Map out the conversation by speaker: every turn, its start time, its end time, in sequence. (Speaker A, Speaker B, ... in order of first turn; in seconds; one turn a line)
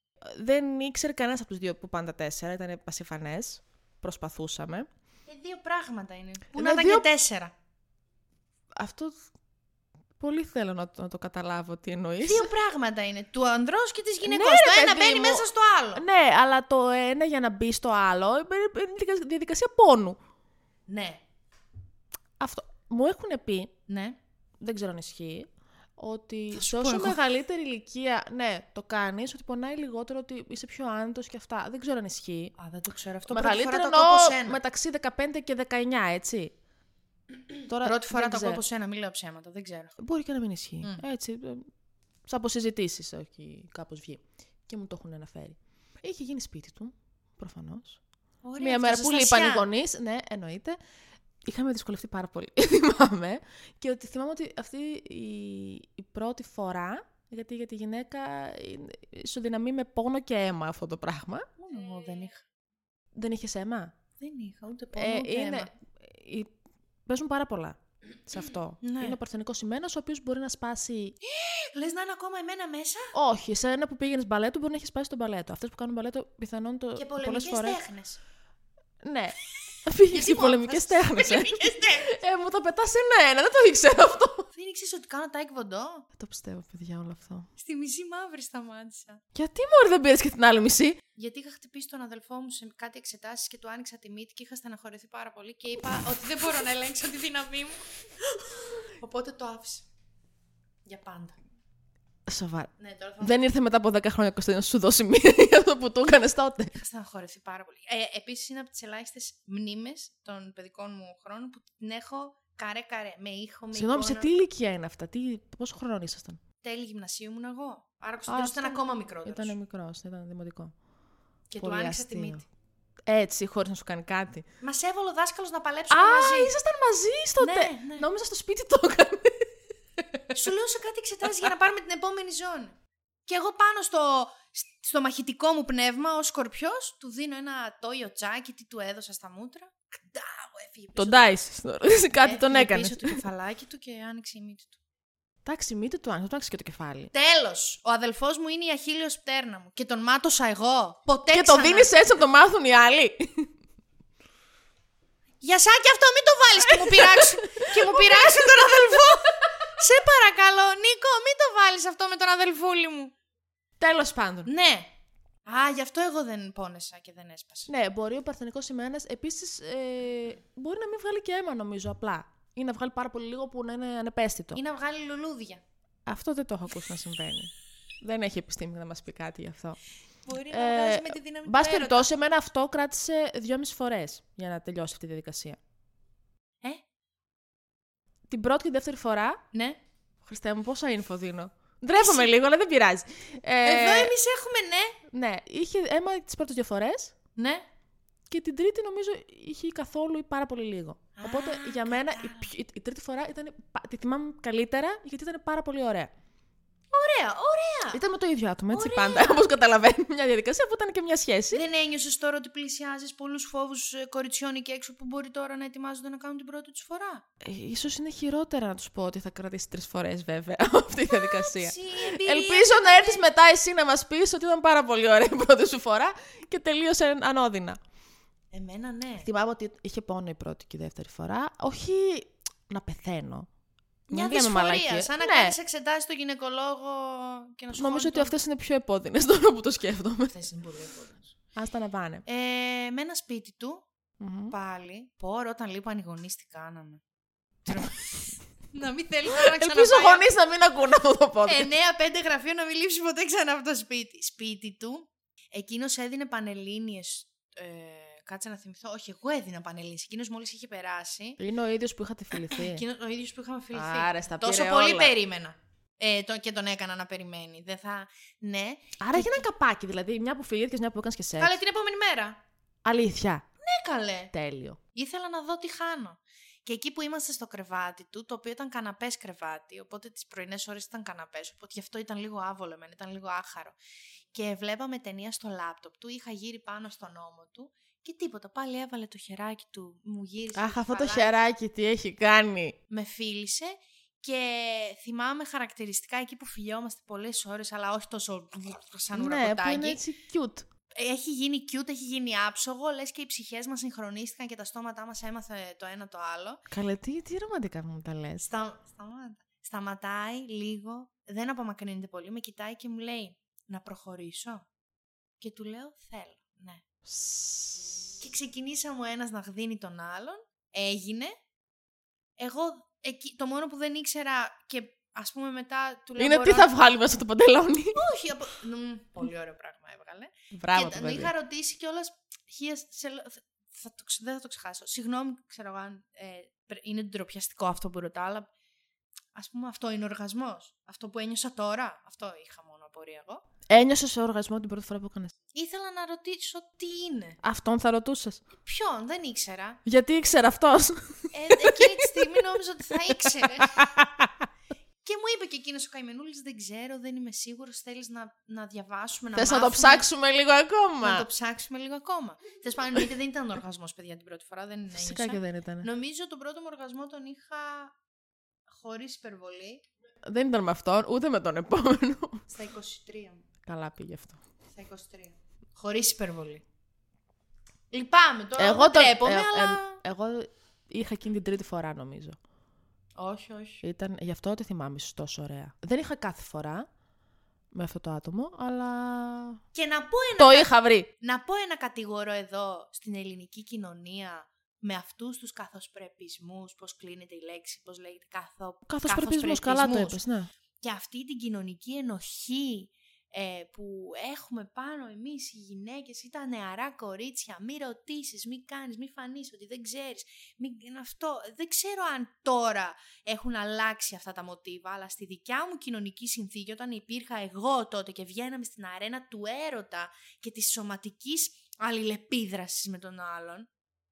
Speaker A: 0.2-4.9
Speaker B: 5.3-7.5
Speaker A: 6.5-7.0
Speaker A: 8.8-9.2
Speaker A: 10.2-12.5
Speaker B: 12.2-16.0
Speaker A: 14.2-15.4
Speaker A: 15.9-20.2
Speaker B: 20.9-21.2
Speaker A: 22.4-23.7
Speaker B: 23.9-24.2
Speaker A: 24.6-32.5
Speaker B: 26.5-27.2
Speaker B: 32.6-34.6
Speaker A: 33.3-36.5
Speaker A: 37.7-38.6
Speaker B: 37.8-40.0
Speaker A: 40.0-41.7
Speaker A: 42.3-48.0
Speaker B: 48.4-49.7
Speaker A: 48.6-50.8
Speaker A: 51.4-61.5
Speaker B: 61.6-62.4
Speaker A: 63.1-63.9
Speaker B: 64.2-65.7
Speaker A: 65.0-66.5
Speaker A: 67.1-71.2
Speaker B: 68.8-69.2
Speaker B: 71.2-73.1
Speaker A: 73.1-77.8
Speaker B: 77.0-78.2
Speaker A: 79.0-84.5
Speaker B: 80.1-82.1
Speaker B: 84.5-86.0
Speaker A: 86.2-87.5
Speaker B: 87.6-89.2
Speaker A: 89.3-91.0
Speaker B: 91.1-97.8
Speaker B: 98.5-99.8
Speaker B: 100.8-101.4
Speaker A: 102.3-106.7
Speaker B: 102.8-103.4
Speaker B: 106.7-114.3
Speaker A: 113.7-116.4
Speaker B: 116.6-119.5
Speaker A: 118.3-120.7
Speaker B: 121.5-122.4
Speaker A: 121.6-122.4
Speaker A: 123.1-124.4
Speaker B: 124.6-126.5
Speaker A: 125.9-129.5
Speaker B: 127.4-128.0
Speaker B: 130.3-132.7
Speaker B: 133.2-141.3
Speaker A: 141.0-143.2
Speaker B: 142.2-144.8
Speaker A: 145.4-147.1
Speaker B: 147.1-151.9
Speaker A: 151.3-153.5
Speaker B: 155.4-163.1
Speaker A: 156.7-158.9
Speaker A: 163.8-164.5
Speaker B: 164.4-164.9
Speaker B: 165.4-167.7
Speaker A: 167.7-174.6
Speaker B: 174.5-175.6
Speaker A: 176.1-179.8
Speaker B: 180.2-182.1
Speaker A: 180.4-185.6
Speaker A: 188.3-189.4
Speaker B: 189.5-189.8
Speaker A: 190.2-194.1
Speaker B: 191.9-192.3
Speaker B: 193.6-195.0
Speaker A: 195.1-197.1
Speaker B: 197.3-197.6
Speaker A: 198.3-206.1
Speaker B: 201.2-202.5
Speaker B: 206.9-208.0
Speaker A: 207.9-211.6
Speaker B: 208.7-209.4
Speaker B: 211.5-217.2
Speaker A: 217.4-227.8
Speaker B: 221.1-223.2
Speaker B: 228.5-229.3
Speaker A: 229.2-233.5
Speaker A: 234.1-235.6
Speaker B: 234.1-238.3
Speaker A: 237.8-240.3
Speaker B: 240.3-241.3
Speaker A: 241.6-242.2
Speaker B: 242.2-243.8
Speaker A: 244.2-244.5
Speaker B: 244.5-247.0
Speaker B: 247.7-250.2
Speaker A: 249.3-251.7
Speaker B: 251.4-261.4
Speaker A: 261.4-262.8
Speaker B: 262.3-269.4
Speaker A: 263.7-265.1
Speaker A: 269.0-271.6
Speaker B: 271.4-272.4
Speaker A: 272.8-273.4
Speaker B: 273.6-274.3
Speaker A: 274.3-274.8
Speaker B: 274.9-283.8
Speaker B: 284.3-291.3
Speaker A: 290.5-292.8
Speaker B: 292.9-300.0
Speaker A: 299.1-300.6
Speaker B: 300.9-306.6
Speaker A: 306.7-308.5
Speaker B: 308.4-314.6
Speaker B: 315.4-316.8
Speaker A: 317.1-318.1
Speaker B: 318.2-321.4
Speaker B: 322.4-326.7
Speaker A: 326.2-328.0
Speaker B: 327.9-338.5
Speaker A: 330.5-331.3
Speaker B: 339.3-343.4
Speaker A: 343.7-345.3
Speaker B: 345.5-347.4
Speaker A: 347.4-348.4
Speaker B: 348.6-349.8
Speaker A: 349.9-352.4
Speaker B: 351.3-353.9
Speaker A: 353.1-354.4
Speaker B: 355.0-360.1
Speaker A: 359.3-361.2
Speaker B: 361.0-367.9
Speaker A: 364.9-365.9
Speaker B: 368.7-369.8
Speaker A: 370.2-372.4
Speaker B: 372.5-373.4
Speaker A: 373.6-374.4
Speaker B: 374.7-376.6
Speaker B: 377.9-380.0
Speaker A: 378.6-382.4
Speaker B: 383.2-383.8
Speaker A: 383.8-386.9
Speaker A: 387.7-389.6
Speaker B: 389.7-400.2
Speaker A: 390.4-391.1
Speaker A: 398.9-400.5
Speaker B: 400.8-423.7